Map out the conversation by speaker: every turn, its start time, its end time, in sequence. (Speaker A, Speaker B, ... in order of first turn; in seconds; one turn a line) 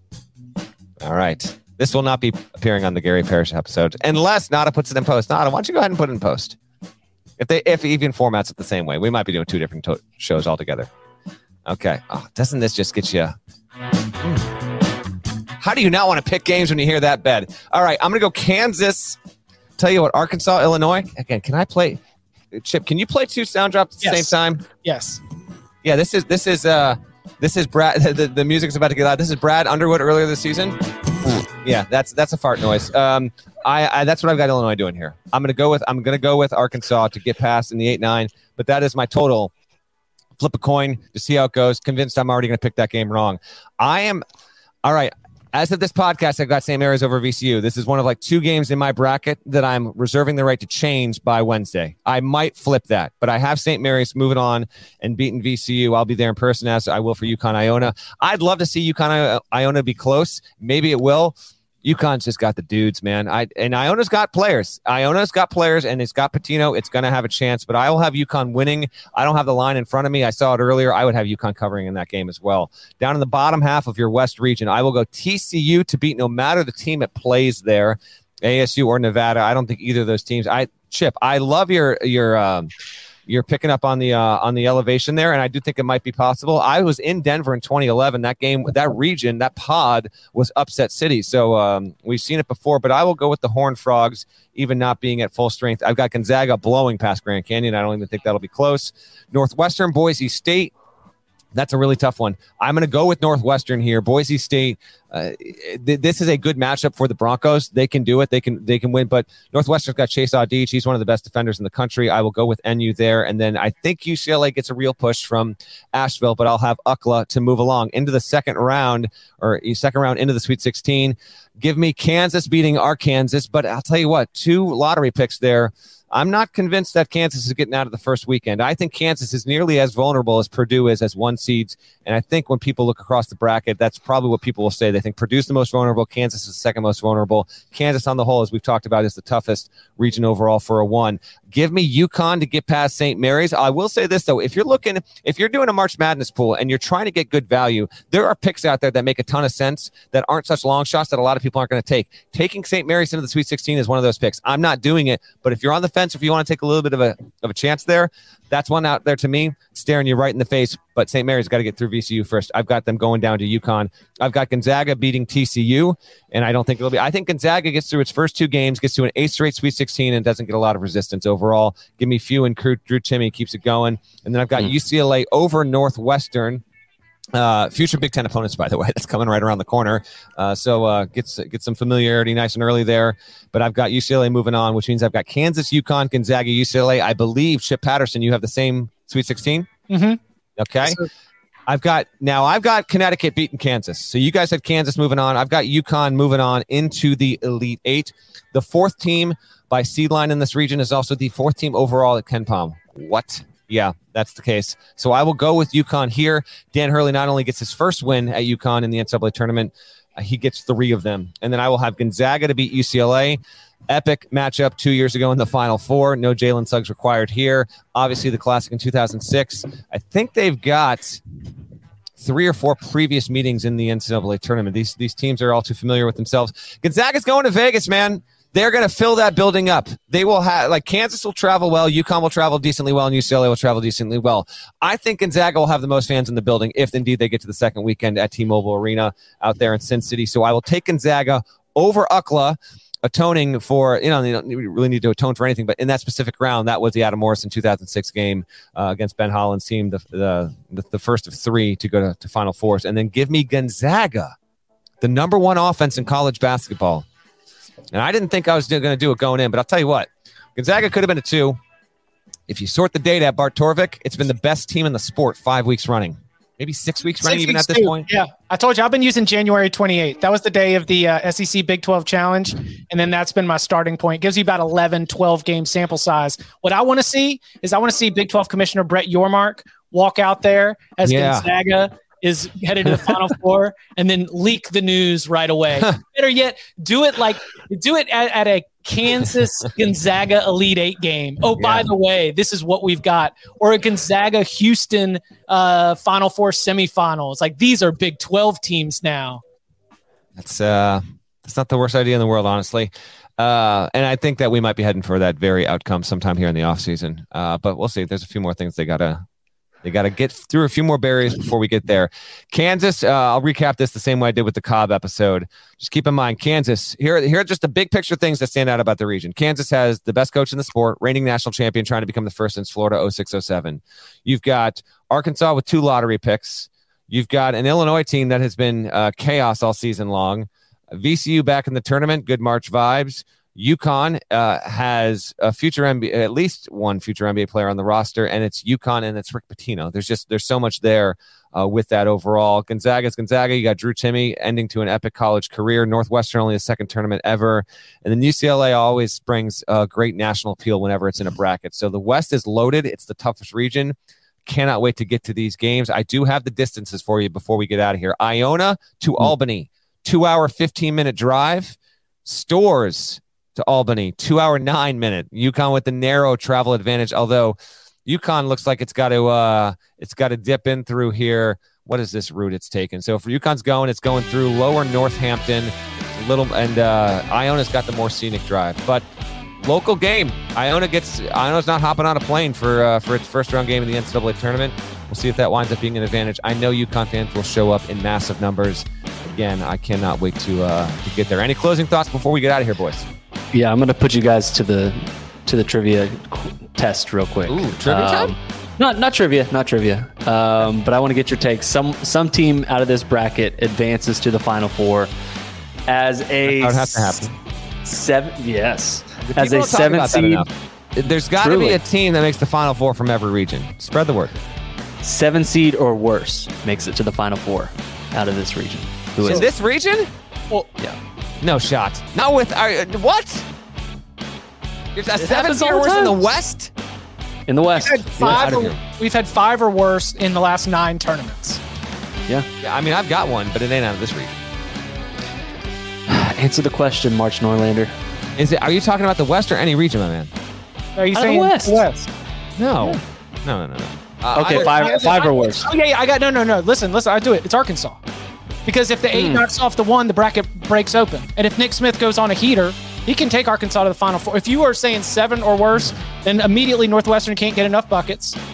Speaker A: 1.0-6.6
Speaker A: 7.4-10.9
Speaker A: 11.7-13.3
Speaker A: 15.6-19.2
Speaker A: 19.8-22.0
Speaker A: 22.5-24.6
Speaker B: 24.0-25.2
Speaker A: 25.8-39.5
Speaker A: 40.4-44.2
Speaker A: 44.8-82.7
Speaker A: 83.3-100.7
Speaker A: 101.5-176.6
Speaker A: 177.3-189.7
Speaker B: 189.9-190.2
Speaker A: 190.6-191.0
Speaker A: 191.7-221.2
Speaker A: 222.2-254.3
Speaker A: 255.0-257.1
Speaker A: 257.9-261.6
Speaker A: 262.5-268.1
Speaker B: 267.2-299.4
Speaker A: 281.0-281.5
Speaker A: 291.6-291.8
Speaker A: 300.4-309.2
Speaker A: 309.8-353.9
Speaker A: 354.4-379.1
Speaker A: 379.6-393.1
Speaker C: 393.5-405.1
Speaker A: 397.5-398.3
Speaker C: 405.9-407.2
Speaker A: 406.4-407.3
Speaker C: 407.8-410.5
Speaker A: 409.2-414.3
Speaker C: 411.4-411.8
Speaker C: 415.0-419.4
Speaker A: 419.2-420.1
Speaker A: 421.4-423.4
Speaker A: 424.9-426.7
Speaker C: 425.2-426.3
Speaker C: 427.5-428.5
Speaker B: 427.8-431.6
Speaker A: 428.2-428.8
Speaker A: 432.6-434.3
Speaker C: 436.1-437.9
Speaker A: 438.4-440.3
Speaker B: 440.9-442.1
Speaker C: 441.1-441.9
Speaker A: 442.6-445.1
Speaker C: 444.3-445.7
Speaker B: 444.5-448.0
Speaker B: 448.6-458.4
Speaker C: 449.1-449.4